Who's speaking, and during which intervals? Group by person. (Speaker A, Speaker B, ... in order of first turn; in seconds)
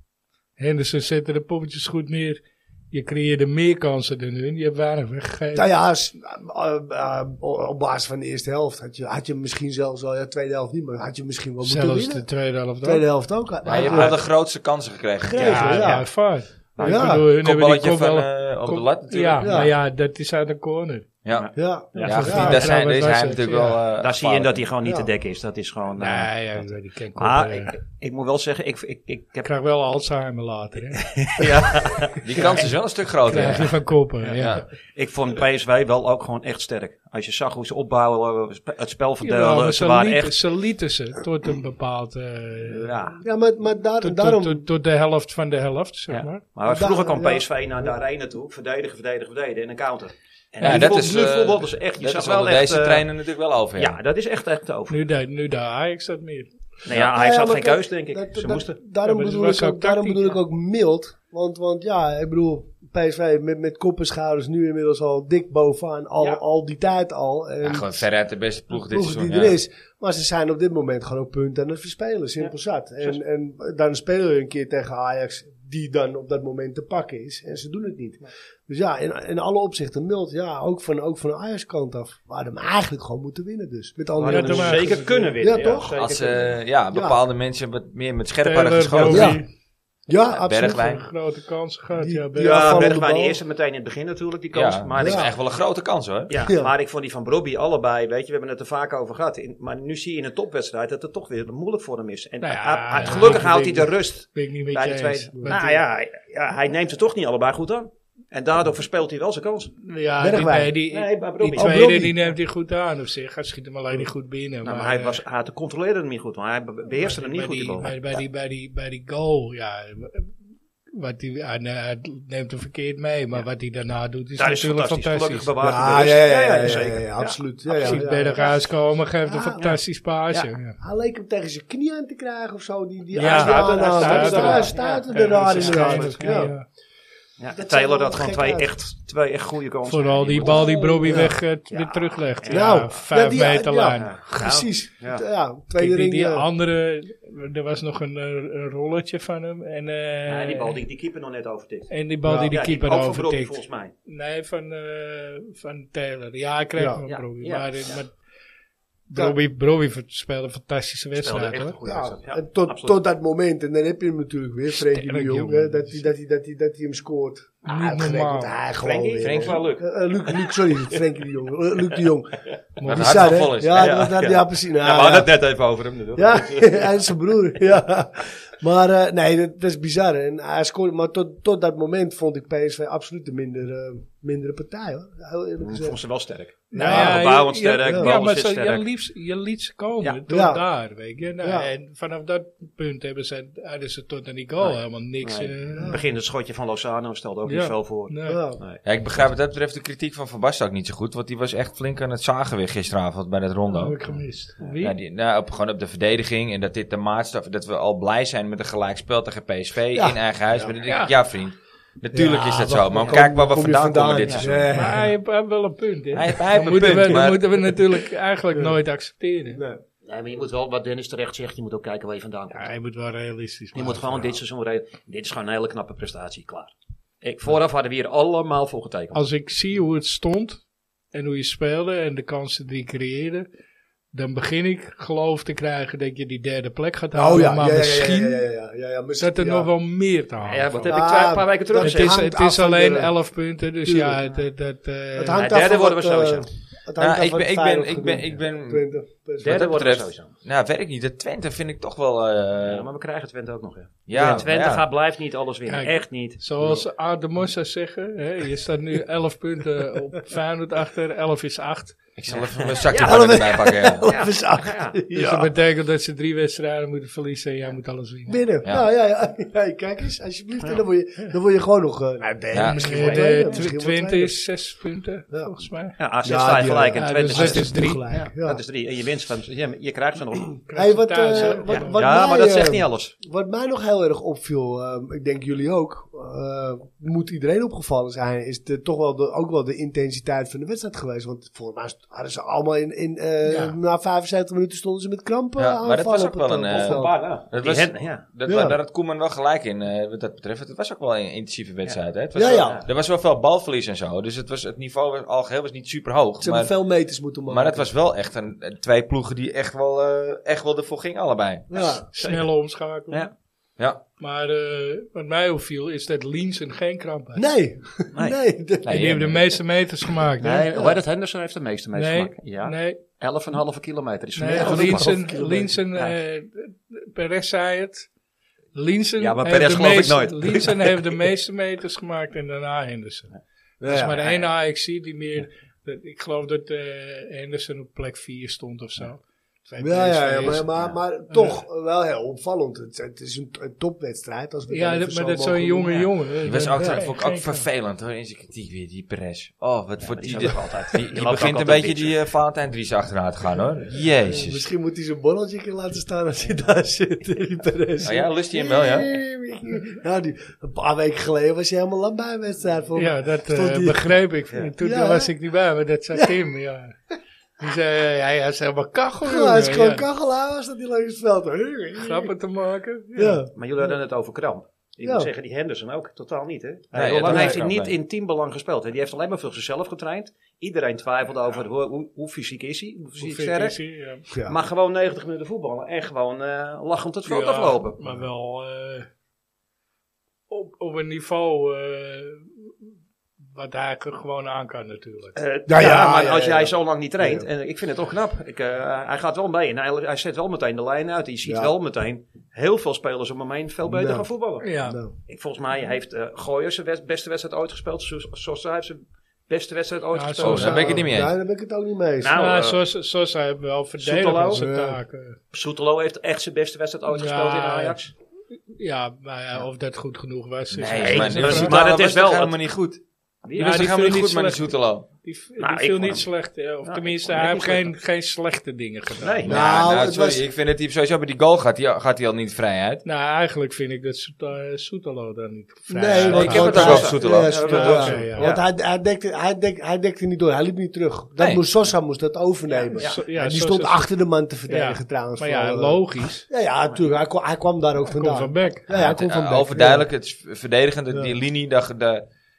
Speaker A: 0.6-5.7, 11.6-13.1, 15.4-21.1, 22.0-23.8, 26.0-27.8, 29.4-31.1, 33.2-34.6, 39.2-43.0, 44.0-46.4, 50.6-51.1, 54.9-56.5, 59.0-60.4, 84.2-85.3, 88.4-89.5, 90.7-93.0, 102.4-105.7, 109.8-115.2, 117.0-120.3, 120.9-125.5, 127.8-130.8, 133.1-136.7, 139.9-144.2, 145.8-150.8, 151.9-158.1, 159.1-161.7, 164.8-166.1, 167.6-168.5, 172.8-173.4, 186.7-196.0, 197.4-198.4, 203.7-204.9, 210.8-211.1, 214.7-219.6, 222.5-224.3, 229.1-233.5, 234.1-238.4, 239.2-241.0, 241.8-245.5, 255.7-262.0, 265.1-268.4, 272.6-275.9, 276.9-278.0, 280.7-282.0, 293.4-293.8, 312.1-313.2, 314.2-317.4, 318.9-320.7, 321.9-323.0, 324.4-328.1, 328.7-333.3, 333.9-341.6, 344.7-347.6, 362.9-367.0, 367.6-370.1, 372.0-373.4, 383.2-384.2, 387.2-389.1, 390.5-392.7, 393.4-395.4, 404.6-405.0, 410.1-411.0, 412.3-415.4, 417.1-418.0, 418.7-421.8, 423.6-424.6, 425.2-429.4, 433.0-437.0, 437.6-438.5, 442.9-444.1, 444.7-446.4, 448.1-448.9
Speaker B: 5.5-12.3, 12.8-14.2, 15.2-17.2, 19.4-19.7, 21.5-22.7, 24.8-25.1, 43.2-44.6, 46.6-47.9, 56.9-68.0, 68.7-85.9, 86.9-87.2, 89.0-89.4, 90.1-91.0, 92.0-93.4, 95.0-95.3, 96.4-96.7, 105.4-105.8, 110.2-110.8, 111.5-112.2, 125.6-128.6, 129.2-129.8, 130.8-136.5, 137.5-138.7, 140.6-141.4, 142.5-146.5, 152.2-152.5, 161.8-175.3, 176.1-185.9, 186.7-188.1, 190.3-190.6, 191.4-191.7, 195.7-196.0, 198.2-198.6, 209.9-210.7, 212.1-215.1, 219.5-219.8, 237.1-239.7, 240.9-243.1, 243.8-244.2, 245.2-249.7, 254.1-254.4, 262.9-265.5, 268.3-274.4, 276.2-278.6, 280.7-297.2, 298.4-298.8, 302.3-302.8, 306.4-307.9, 311.7-312.1, 317.3-319.2, 320.7-321.0, 324.5-325.8, 333.8-334.3, 339.8-346.1, 354.3-364.1, 364.8-365.3, 369.2-372.3, 373.1-373.5, 375.0-375.3, 377.2-377.6, 384.3-384.6, 395.7-397.5, 401.4-401.7, 403.9-405.1, 410.4-412.4, 414.5-415.0, 429.4-430.4, 435.9-450.1, 451.1-451.4
Speaker C: 13.6-15.9, 17.1-19.6, 21.2-24.6, 32.2-34.6, 50.6-54.0, 67.6-69.5, 85.9-89.4, 90.3-91.0, 94.5-96.3, 169.2-169.7, 172.8-173.9, 198.8-204.0, 204.8-214.8, 216.1-217.5, 247.0-248.9, 249.4-252.9, 254.1-254.8, 262.2-264.1, 272.5-273.6, 295.6-306.7, 307.5-311.7, 318.8-319.4, 346.4-354.6, 358.0-359.1, 376.9-377.9, 410.4-411.3, 420.7-423.0, 423.5-425.1, 429.4-433.0, 436.3-438.2, 441.4-441.6, 448.9-452.2
Speaker D: 13.8-14.1, 15.3-15.8, 16.8-17.1, 21.3-22.5, 24.0-29.5, 31.0-32.7, 34.6-40.4, 42.7-43.2, 46.1-53.1, 53.8-55.0, 56.8-58.8, 72.4-73.2, 84.2-86.6, 92.4-95.3, 96.3-109.7, 110.9-111.9, 114.6-117.9, 124.3-128.4, 133.2-136.3, 137.4-142.8, 144.0-145.2, 150.3-153.9, 157.1-158.0, 161.2-163.0, 168.8-170.9, 173.7-177.0, 185.6-188.8, 194.6-198.8, 214.2-214.5, 220.0-222.7, 223.7-229.2, 240.4-242.2, 245.3-246.5, 249.4-250.3, 252.6-256.4, 262.3-265.0, 276.0-280.6, 281.3-283.1, 296.7-298.2, 301.8-302.9, 312.2-312.5, 320.4-325.2, 329.2-331.1, 350.0-352.1, 373.5-383.8, 384.4-388.0, 395.4-404.7, 405.3-411.1, 412.2-412.8, 414.0-414.6, 415.5-418.1, 420.9-422.6, 423.4-423.8, 425.6-426.2, 426.8-427.9, 429.2-429.6, 436.2-438.6, 442.9-443.1